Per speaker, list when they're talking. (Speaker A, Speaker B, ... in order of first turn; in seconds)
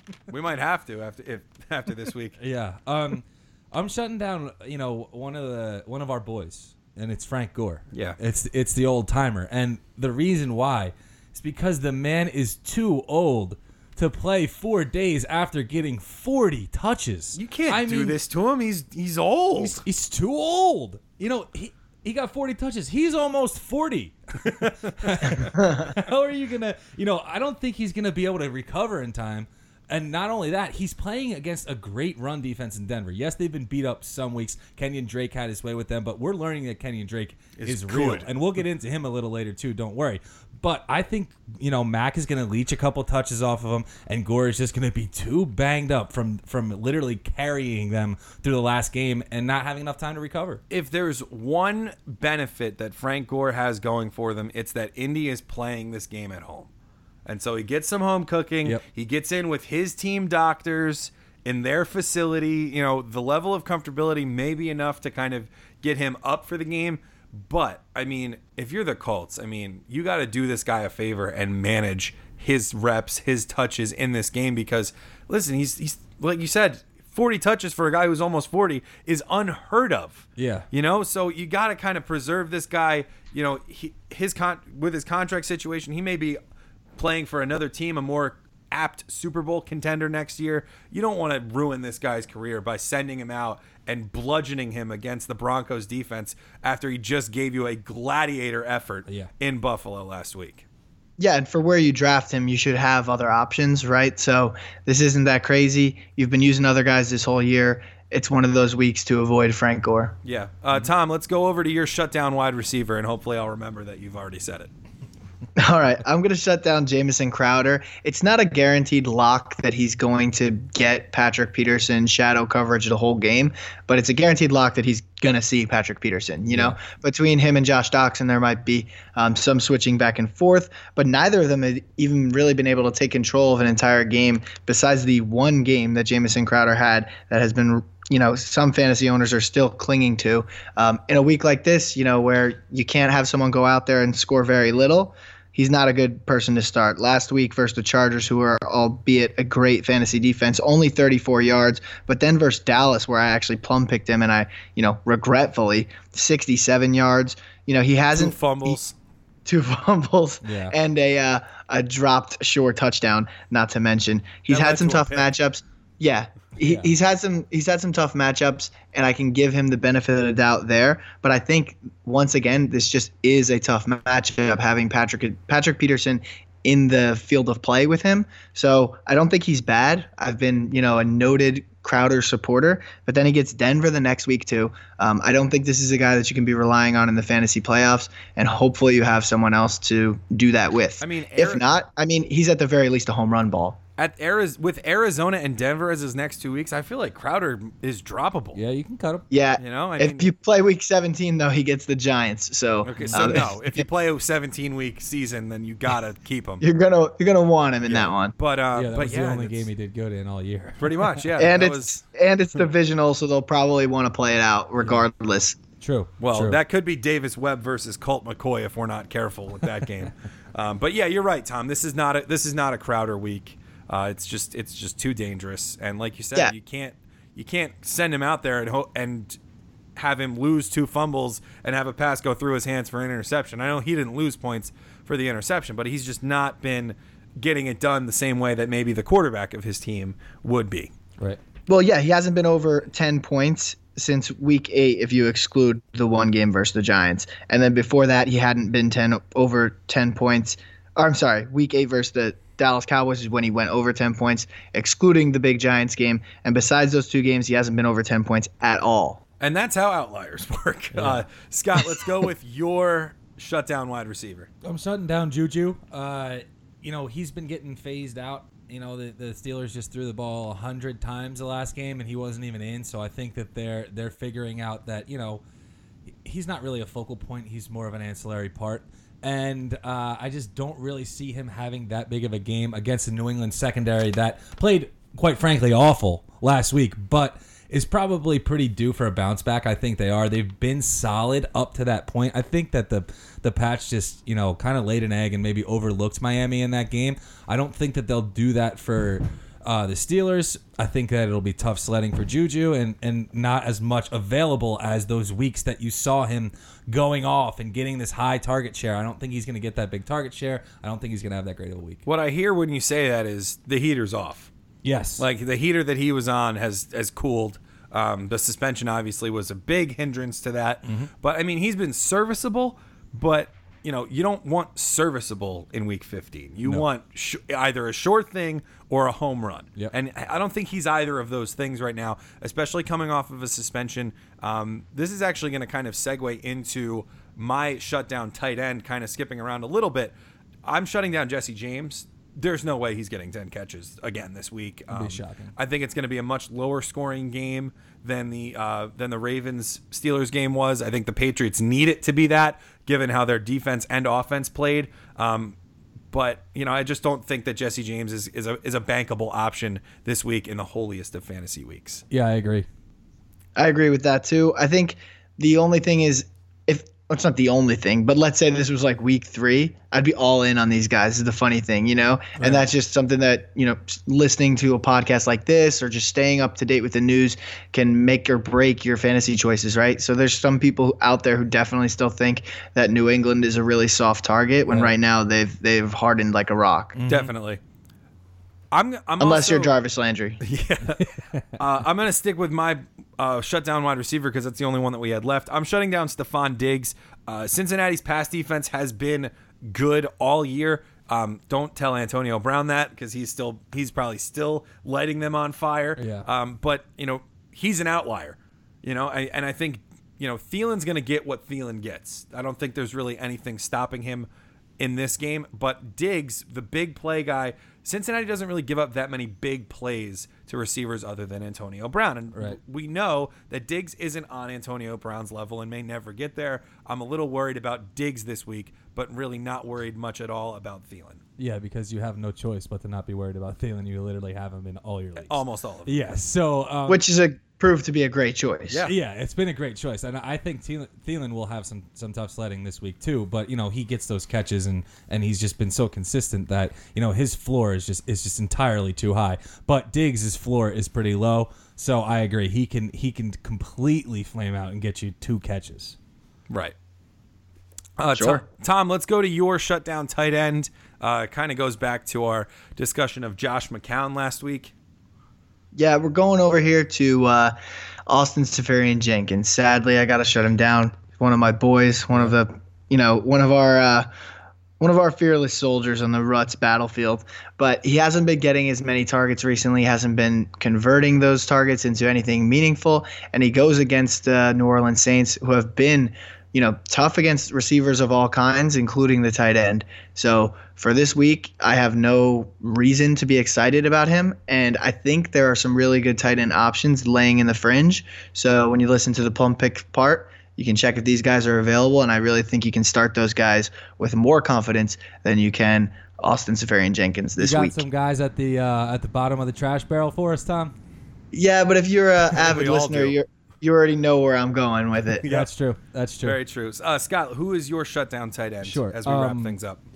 Speaker A: 0.3-2.4, 7.9-8.2, 17.4-19.8, 24.5-25.4, 37.6-38.3, 50.7-56.7, 57.2-86.4, 87.0-100.6, 110.2-114.7, 158.1-158.9, 164.5-165.3, 191.0-191.6, 194.0-198.6, 199.6-200.3, 202.8-206.6, 207.9-209.7, 210.8-212.0, 216.2-229.4, 229.9-240.9, 259.4-264.5, 312.1-314.5, 315.2-355.6, 356.1-362.0, 387.1-387.6, 388.7-389.7, 390.4-414.3, 414.8-431.2, 435.2-436.0, 438.7-438.9, 456.5-456.7, 458.0-464.7, 512.3-513.2, 515.2-515.5, 516.2-519.8
Speaker B: 2.4-18.2, 19.6-50.6, 80.4-80.7, 126.5-126.8, 160.4-160.7, 166.6-166.9, 198.5-199.2, 202.9-203.4, 208.7-211.2, 214.8-215.0, 215.8-216.6, 260.9-261.2, 264.6-275.4, 276.2-312.0, 314.8-315.2, 320.8-321.1, 344.9-345.5, 362.1-362.6, 384.7-384.9, 386.9-387.3, 391.0-391.4, 405.9-406.3, 431.4-437.0, 438.8-456.0, 507.4-510.7, 515.2-516.4, 518.6-519.6
Speaker C: 101.2-110.2, 115.6-158.8, 159.4-193.8, 199.3-203.8, 206.6-208.3, 211.4-215.6, 241.7-259.2, 363.6-387.0, 389.2-390.4, 436.9-438.8, 458.1-458.4, 465.7-467.5, 468.1-474.1, 474.8-507.8, 511.3-515.3